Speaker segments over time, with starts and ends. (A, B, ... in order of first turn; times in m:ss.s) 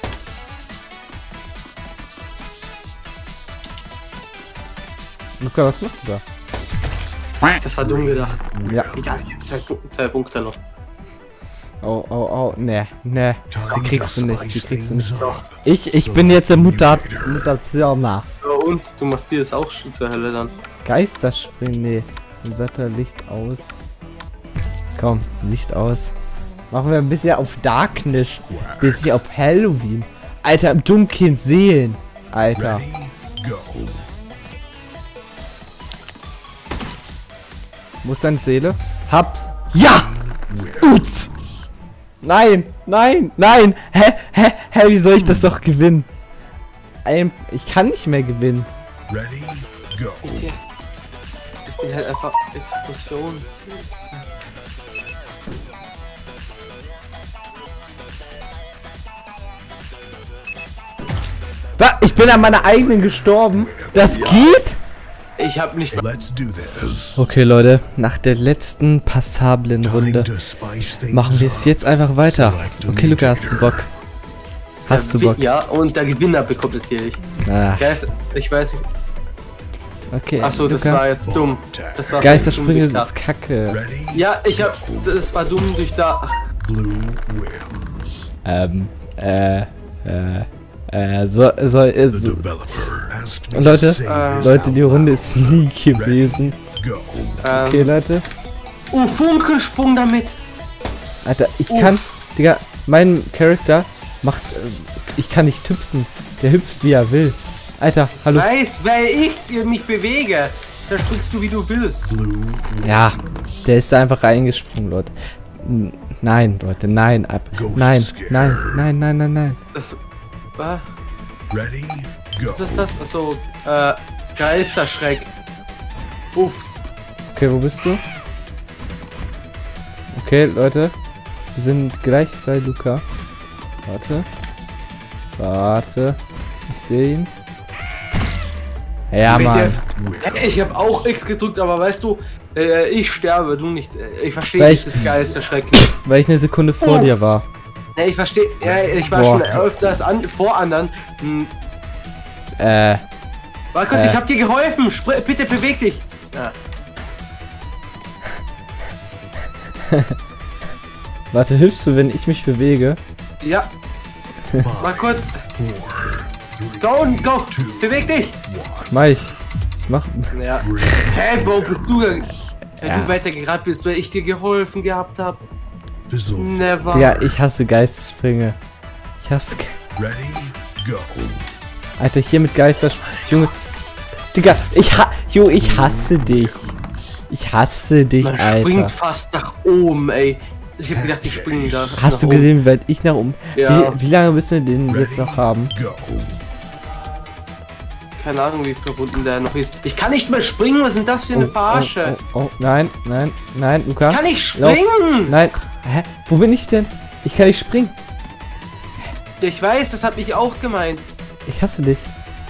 0:05.4-0:06.2 A
0:07.6-0:10.6 B
0:07.9-0:09.4 C
0:08.6-0:08.9 A
0:11.8-0:18.3 A
0:13.5-0:17.5 C
0:18.4-0:20.5 B
0:20.8-0:23.7 A
0:25.0-0:26.1 A
0:26.7-0:32.8 A
0:28.5-0:29.1 C
0:32.6-0:34.0 C
0:38.0-0:40.2 A
0:39.8-0:41.0 C
0:40.8-0:41.3 A
0:42.2-0:46.1 A
0:47.0-0:48.7 A
0:49.1-0:50.4 C
0:50.2-0:50.6 B
0:51.7-0:54.2 B
1:01.8-1:04.8 A
1:03.5-1:04.4 C
1:04.1-1:04.5 B
1:05.4-1:06.0 B
1:06.0-1:07.2 C
1:07.2-1:10.3 A
1:09.8-1:11.7 C
1:11.1-1:13.9 A
1:12.3-1:13.8 C
1:14.8-1:17.2 B
1:14.8-1:15.5 A
1:17.4-1:17.9 A
1:17.7-1:18.8 B
1:20.1-1:21.0 A
1:20.4-1:23.1 B
1:21.2-1:22.6 C
1:22.2-1:23.8 A
1:23.8-1:25.0 C
1:24.1-1:26.4 B
1:26.6-1:28.0 C
1:28.4-1:32.5 A
1:32.1-1:37.4 C
1:33.5-1:36.6 A
1:34.0-1:34.6 B
1:37.4-1:37.9 B
1:37.5-1:38.2 A
1:38.9-1:40.4 B
1:41.2-1:48.5 A
1:41.7-1:42.0 B
1:48.3-1:52.1 B
1:52.1-1:53.1 C
1:52.8-1:59.6 A
1:57.6-1:58.8 C
1:59.7-2:00.0 B
2:00.6-2:00.8 B
2:01.5-2:02.7 C
2:02.5-2:05.3 B
2:06.3-2:06.6 B
2:07.3-2:08.0 A
2:10.1-2:10.9 A
2:11.5-2:13.0 A
2:13.8-2:14.3 A
2:15.4-2:17.3 A
2:19.1-2:19.8 A
2:19.3-2:25.9 B
2:19.9-2:20.7 C
2:24.6-2:25.0 A
2:25.9-2:27.4 A
2:26.8-2:27.1 B
2:28.0-2:31.5 B
2:28.6-2:30.0 C
2:29.1-2:29.5 A
2:32.6-2:33.0 A
2:33.7-2:36.5 B
2:33.9-2:34.2 A
2:39.8-2:40.2 A
2:41.3-2:43.0 A
2:43.4-2:43.7 B
2:44.6-2:48.9 C
2:44.8-2:45.4 B
2:46.8-2:48.4 B
2:48.9-2:49.3 A
2:49.9-2:50.3 A
2:50.3-2:55.4 B
2:50.6-2:51.8 C
2:52.8-2:53.1 A
2:56.1-2:57.2 C
2:56.3-2:57.1 B
2:56.9-2:58.6 A
2:59.2-2:59.8 A
3:00.0-3:01.4 C
3:02.0-3:03.5 A
3:04.3-3:06.7 A
3:05.8-3:06.4 C
3:07.3-3:08.9 A
3:08.2-3:12.5 B
3:11.3-3:11.7 C
3:12.0-3:15.7 A
3:13.5-3:14.0 B
3:15.0-3:16.3 C
3:18.2-3:22.2 B
3:21.3-3:28.0 A
3:24.1-3:25.3 B
3:29.4-3:31.0 B
3:31.4-3:32.1 A